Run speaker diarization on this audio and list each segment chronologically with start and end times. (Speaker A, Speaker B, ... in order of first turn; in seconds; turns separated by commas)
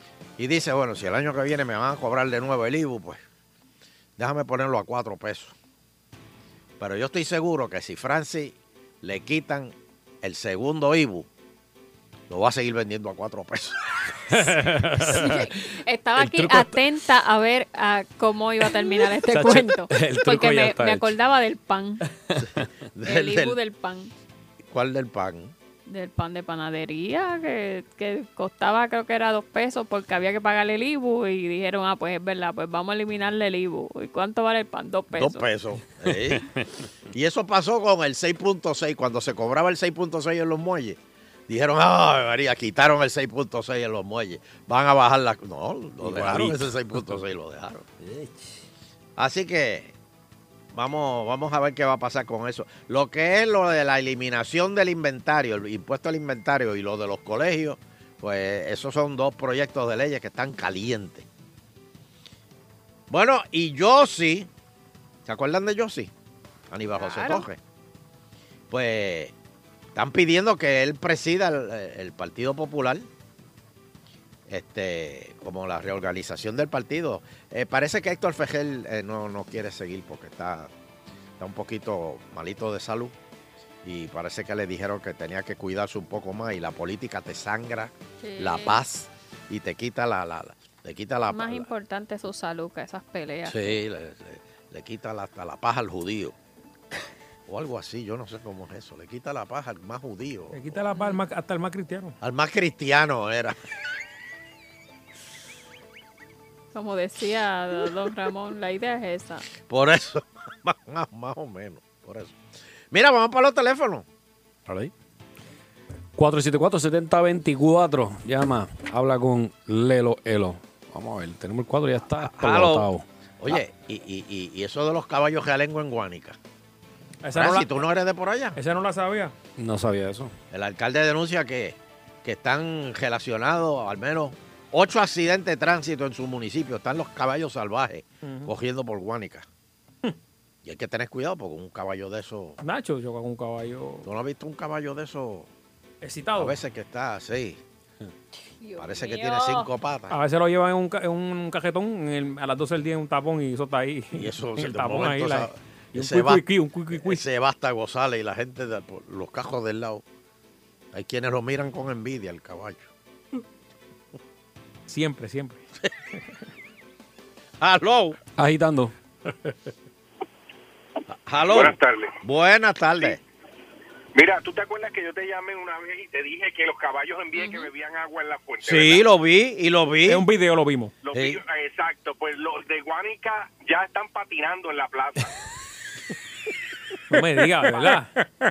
Speaker A: 0.4-3.2, Speaker A: 4.2-5.5, Speaker A: 6.8-11.3, Speaker A: 12.3-13.8, Speaker B: 14.3-15.5, Speaker C: 15.0-22.0, Speaker B: 16.2-16.8, Speaker B: 18.8-21.1, Speaker B: 22.1-22.6, Speaker A: 22.9-23.6, Speaker C: 23.0-24.1, Speaker A: 24.7-25.5, Speaker C: 25.9-35.5, Speaker A: 35.1-36.5, Speaker B: 36.1-36.6, Speaker A: 37.1-47.9, Speaker B: 46.0-46.7, Speaker A: 49.2-49.9, Speaker A: 50.7-61.2, Speaker A: 63.1-64.5, Speaker A: 65.2-66.1, Speaker A: 66.7-67.6, Speaker C: 67.0-67.5, Speaker A: 68.7-69.3, Speaker A: 69.9-73.1, Speaker A: 74.5-80.7, Speaker A: 81.4-83.1, Speaker A: 83.8-91.7, Speaker C: 88.2-88.8, Speaker C: 91.3-93.7, Speaker A: 93.4-96.3, Speaker A: 97.5-100.8, Speaker D: 100.5-102.2, Speaker C: 100.9-101.2, Speaker A: 102.2-103.5, Speaker C: 106.7-109.4, Speaker A: 109.6-112.4, Speaker A: 112.9-114.0, Speaker B: 114.7-114.9, Speaker B: 116.2-123.0, Speaker A: 122.2-126.4, Speaker D: 127.2-127.7, Speaker A: 127.3-128.6, Speaker D: 128.6-129.3, Speaker B: 129.6-130.3, Speaker A: 130.5-139.4, Speaker D: 138.2-138.5, Speaker A: 140.6-142.6, Speaker D: 142.6-144.1, Speaker A: 144.0-145.5, Speaker D: 146.0-146.6, Speaker A: 146.4-147.6, Speaker C: 148.6-149.7, Speaker A: 148.8-150.2, Speaker D: 150.1-157.2, Speaker A: 154.1-160.0, Speaker A: 160.9-162.9, Speaker D: 164.9-165.6, Speaker A: 167.6-168.2, Speaker B: 168.4-168.9, Speaker A: 171.1-173.2, Speaker E: 171.4-172.2, Speaker E: 174.1-179.1, Speaker C: 177.3-177.7, Speaker A: 178.6-180.2, Speaker D: 180.1-180.9, Speaker E: 181.0-185.3, Speaker A: 181.1-181.4, Speaker D: 187.1-188.1